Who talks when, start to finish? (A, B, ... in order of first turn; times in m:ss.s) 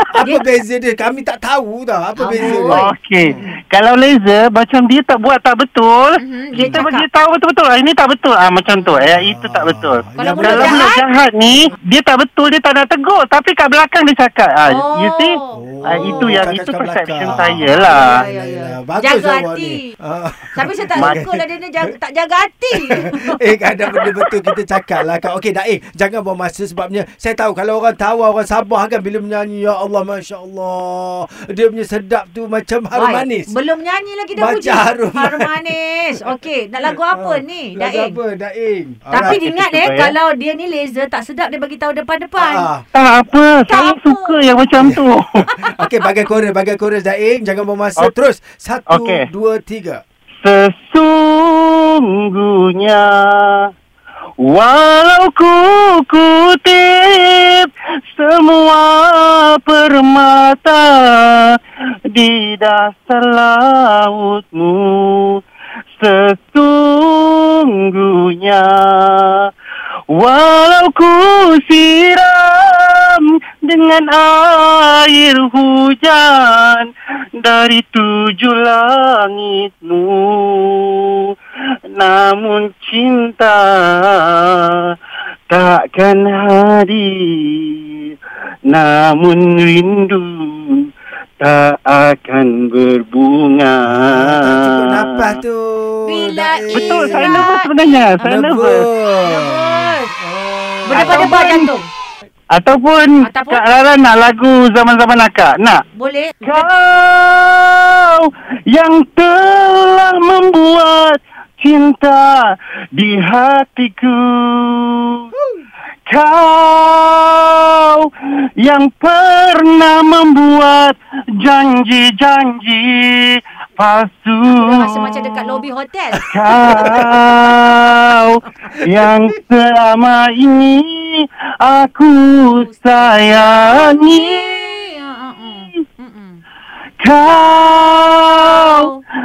0:00.1-0:03.4 A
0:00.2-0:00.4 B
0:02.2-0:03.5 B
0:02.4-0:18.2 C
0:06.2-0:07.1 B
0:09.1-0:10.9 A
0:10.2-0:11.0 B
0:14.6-0:16.5 B
0:15.5-0:21.9 A
0:17.4-0:19.9 B
0:20.5-0:24.3 B
0:22.8-0:33.5 A
0:32.9-0:38.2 B
0:34.4-0:35.5 A
0:37.1-0:39.5 A
0:39.1-0:42.7 B
0:39.2-0:40.1 C
0:42.4-0:42.8 A
0:42.9-0:45.4 C
0:43.7-0:44.5 B
0:44.8-0:50.0 A
0:48.9-0:49.2 C
0:50.4-0:53.6 C
0:54.4-1:01.6 C
1:02.1-1:05.4 C
1:06.0-1:09.5 C
1:10.2-1:21.2 C
1:22.0-1:24.8 C
1:25.5-1:28.0 C
1:28.7-1:30.8 C
1:31.4-1:35.3 C
1:33.9-1:37.4 A
1:36.0-1:38.3 B
1:36.7-1:38.8 C
1:38.2-1:41.4 A
1:39.2-1:40.1 B
1:40.9-1:41.9 B
1:40.9-1:41.7 C
1:42.5-1:45.8 C
1:43.2-1:43.6 B
1:45.9-1:46.7 B
1:46.4-1:55.2 C
1:56.1-2:05.6 C
2:04.5-2:06.3 B
2:06.3-2:14.6 C
2:06.5-2:07.3 A
2:12.5-2:16.4 B
2:17.0-2:18.9 C
2:18.4-2:19.0 B